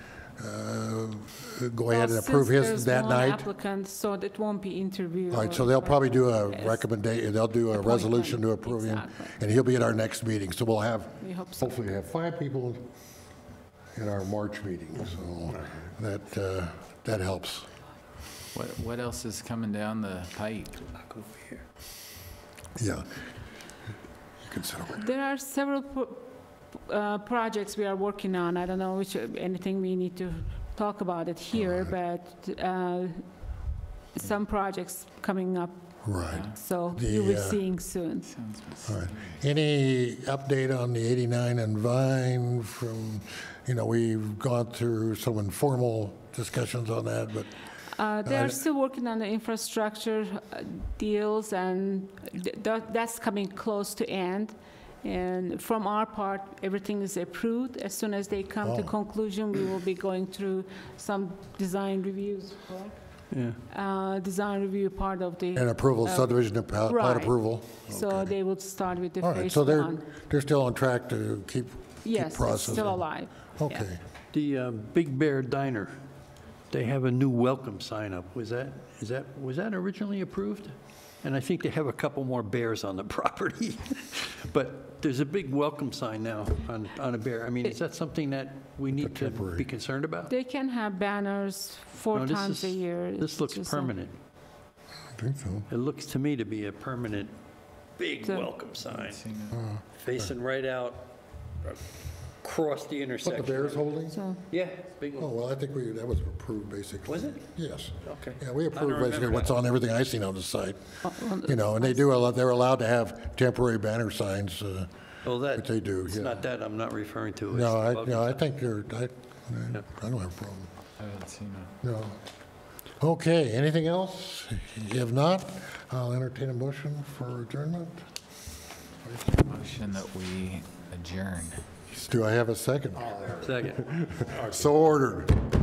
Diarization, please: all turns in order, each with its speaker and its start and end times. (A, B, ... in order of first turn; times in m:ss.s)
0:00.4-0:03.5 A
0:01.9-0:06.8 B
0:05.3-0:12.9 A
0:07.7-0:09.3 B
0:11.2-0:11.8 B
0:14.0-0:17.7 A
0:18.5-0:20.8 C
0:21.0-0:21.6 D
0:22.8-0:23.1 A
0:24.5-0:25.1 A
0:25.0-0:33.2 B
0:34.2-0:35.8 B
0:36.0-0:37.6 A
0:36.4-0:38.4 B
0:38.4-0:39.3 C
0:38.8-0:47.5 A
0:47.9-1:03.0 B
0:48.3-0:48.6 A
0:58.6-0:58.9 A
1:03.3-1:03.6 D
1:03.7-1:10.0 B
1:05.6-1:08.3 A
1:09.2-1:13.0 A
1:12.0-1:13.9 B
1:13.6-1:14.0 A
1:14.3-1:15.9 D
1:16.7-1:30.3 D
1:29.0-1:29.7 A
1:30.3-1:33.9 B
1:32.1-1:34.1 D
1:35.2-1:35.7 A
1:35.7-1:37.3 D
1:38.0-1:39.2 D
1:38.2-1:38.5 B
1:38.9-1:39.6 C
1:39.5-1:39.8 A
1:40.0-1:41.8 D
1:42.4-1:43.9 D
1:43.2-1:44.2 A
1:44.1-1:44.4 B
1:44.5-1:45.3 D
1:45.2-1:50.8 A
1:47.1-1:47.4 D
1:48.0-1:49.6 D
1:51.0-1:52.1 B
1:51.4-1:54.9 A
1:55.2-1:58.4 D
1:55.5-1:56.4 A
1:57.5-2:00.7 A
2:01.0-2:01.7 C
2:01.8-2:02.2 A
2:03.0-2:08.1 A
2:09.0-2:09.3 A
2:09.4-2:11.6 C
2:11.9-2:15.4 A
2:13.2-2:14.3 D